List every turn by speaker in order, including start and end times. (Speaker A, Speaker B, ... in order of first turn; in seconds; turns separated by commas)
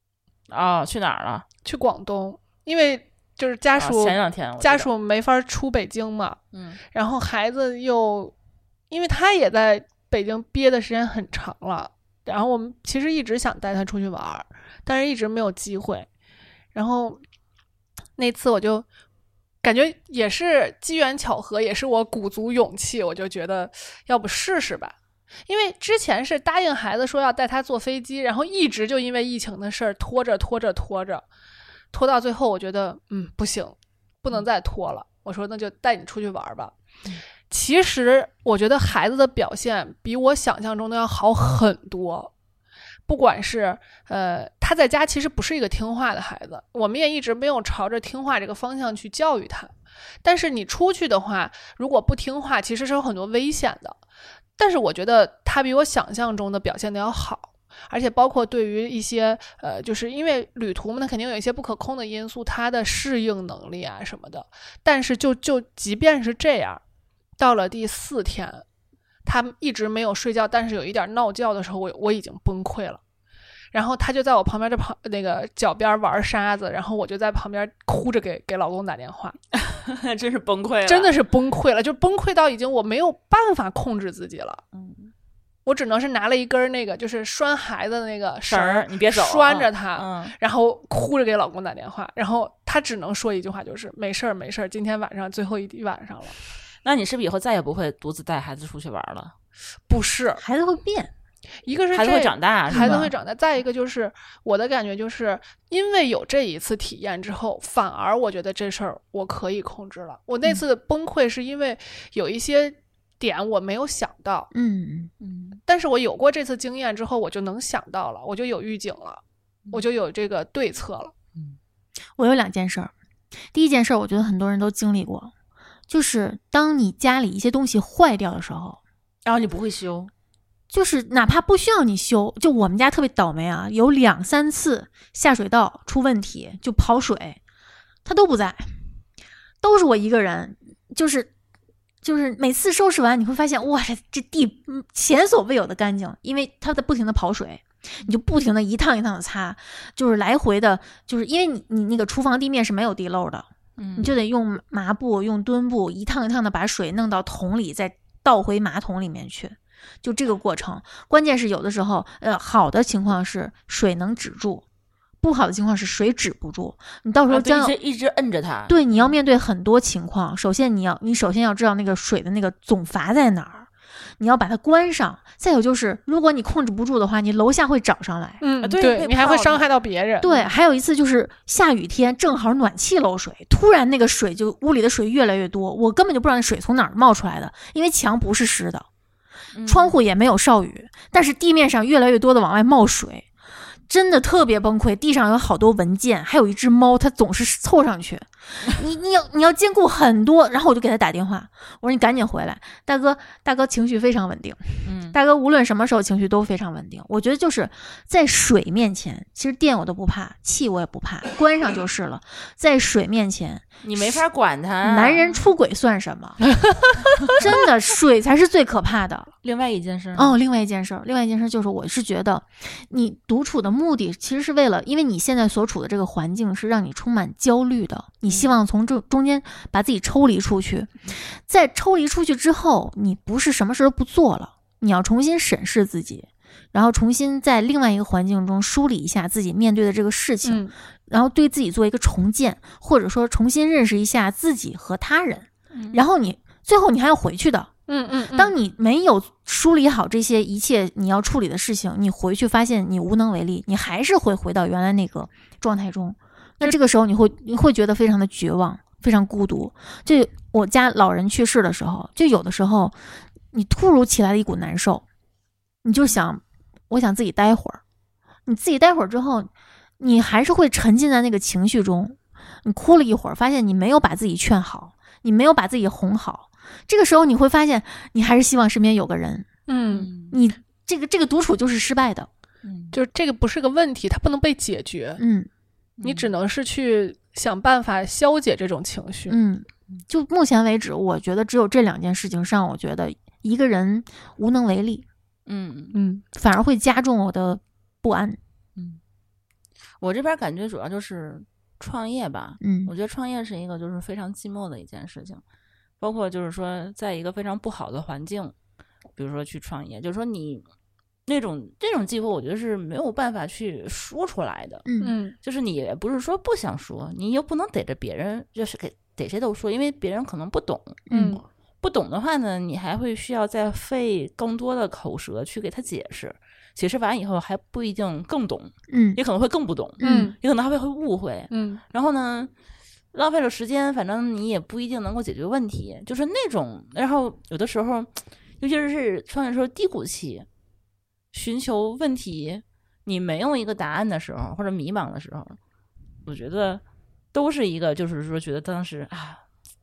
Speaker A: 0.5-1.5, Speaker B: 1.6-6.4, Speaker A: 3.8-4.9, Speaker A: 6.5-6.8, Speaker B: 6.9-8.3, Speaker B: 8.9-16.1, Speaker B: 16.7-17.2, Speaker B: 18.2-18.9, Speaker B: 19.6-24.9, Speaker B: 25.5-31.2, Speaker B: 31.9-36.7, Speaker B: 37.5-42.3, Speaker B: 43.1-49.7, Speaker B: 50.2-54.0, Speaker B: 54.6-66.8, Speaker B: 67.4-68.7, Speaker B: 69.3-73.0, Speaker B: 73.7-79.4, Speaker A: 79.5-81.1, Speaker B: 80.9-84.6, Speaker A: 84.7-85.1, Speaker B: 85.7-96.4, Speaker A: 88.5-90.3, Speaker A: 96.8-99.3, Speaker B: 99.9-100.4, Speaker C: 100.4-101.1, Speaker B: 101.7-114.5, Speaker A: 101.9-103.1, Speaker C: 102.7-103.1, Speaker C: 114.5-115.1, Speaker A: 115.2-115.6, Speaker B: 115.7-121.1, Speaker C: 122.2-122.9, Speaker C: 123.5-125.3, Speaker C: 125.9-128.8, Speaker A: 129.2-130.1, Speaker C: 130.7-137.4, Speaker C: 138.1-138.7, Speaker C: 139.6-141.3, Speaker C: 142.0-164.6, Speaker A: 153.8-154.2, Speaker C: 165.2-167.7, Speaker A: 167.3-169.1, Speaker C: 168.7-178.4, Speaker B: 178.4-180.3, Speaker A: 178.6-179.7, Speaker C: 180.2-188.9, Speaker A: 189.5-190.0, Speaker C: 189.7-193.3, Speaker C: 193.9-214.2, Speaker A: 204.8-205.2, Speaker A: 213.8-215.4, Speaker C: 214.8-216.4, Speaker C: 217.3-219.3, Speaker A: 219.4-220.4, Speaker C: 220.2-247.7, Speaker B: 240.4-240.7, Speaker A: 245.7-246.0, Speaker B: 247.9-248.5, Speaker C: 248.3-262.9, Speaker C: 263.5-265.0, Speaker C: 265.8-267.8, Speaker C: 268.5-269.5, Speaker C: 270.0-279.5, Speaker B: 279.7-280.1, Speaker A: 279.9-280.4, Speaker C: 280.3-282.3, Speaker A: 282.6-282.9, Speaker B: 282.9-285.2, Speaker C: 285.2-285.5, Speaker A: 286.0-286.3, Speaker B: 286.0-289.4, Speaker C: 289.3-295.1, Speaker A: 295.5-296.0, Speaker B: 295.9-296.2, Speaker C: 296.3-298.4, Speaker A: 300.0-305.4, Speaker C: 302.6-302.9, Speaker A: 306.0-308.5, Speaker A: 309.2-310.6, Speaker A: 311.3-314.9, Speaker C: 314.9-315.1, Speaker B: 315.0-315.4, Speaker A: 315.4-321.0, Speaker C: 321.1-321.4, Speaker B: 321.1-321.4, Speaker A: 321.8-332.5, Speaker C: 328.9-329.2, Speaker C: 330.0-330.3, Speaker B: 330.0-330.4, Speaker B: 331.5-331.8, Speaker A: 333.1-340.5, Speaker A: 341.3-345.6, Speaker A: 346.3-346.8, Speaker A: 347.3-349.4